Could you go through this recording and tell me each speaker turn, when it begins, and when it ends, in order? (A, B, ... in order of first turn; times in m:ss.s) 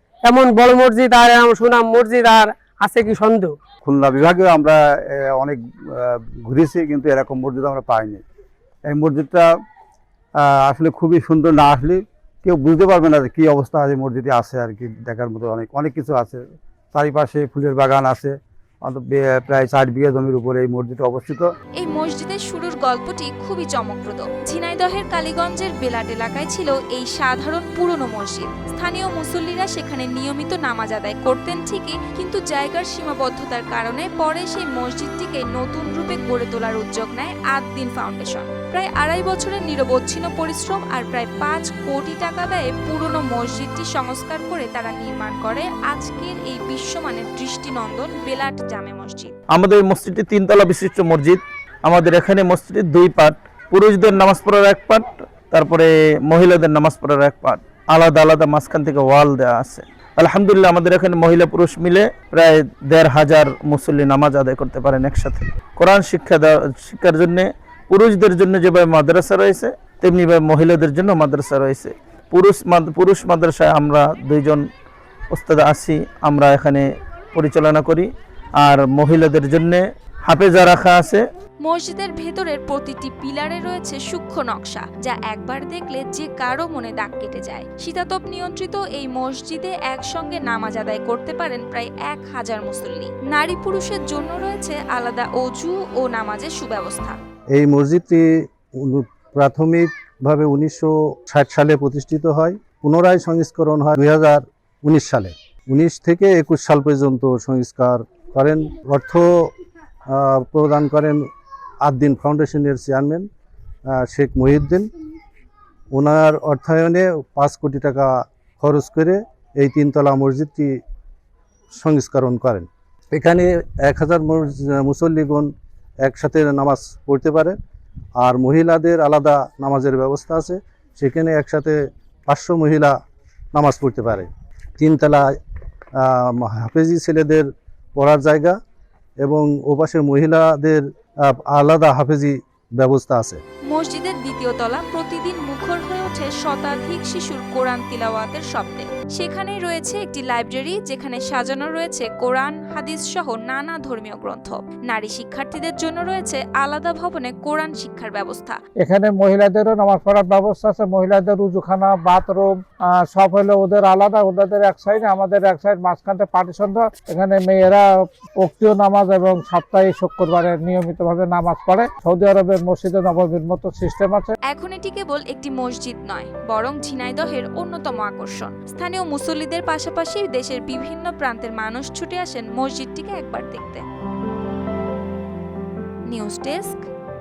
0:00.2-0:03.6 A
0:03.8-0:08.2 B
0:08.8-0:09.6 B
0:10.4-0:21.5 B
0:21.8-0:49.4 C
0:49.5-1:14.6 D
1:15.3-1:18.1 D
1:18.6-1:21.2 D
1:21.6-1:37.2 C
1:37.5-1:49.5 E
1:50.1-1:51.3 E
1:51.8-1:53.3 E
1:53.9-1:54.9 E
1:55.9-2:00.8 E
2:01.8-2:07.6 E
2:08.2-2:13.0 E
2:13.5-2:14.3 E
2:14.8-2:15.3 E
2:16.0-2:18.6 E
2:19.2-2:23.4 E
2:23.7-2:38.6 C
2:38.8-2:47.9 F
2:48.4-2:54.3 F
2:54.5-3:03.8 C
3:06.1-3:06.9 C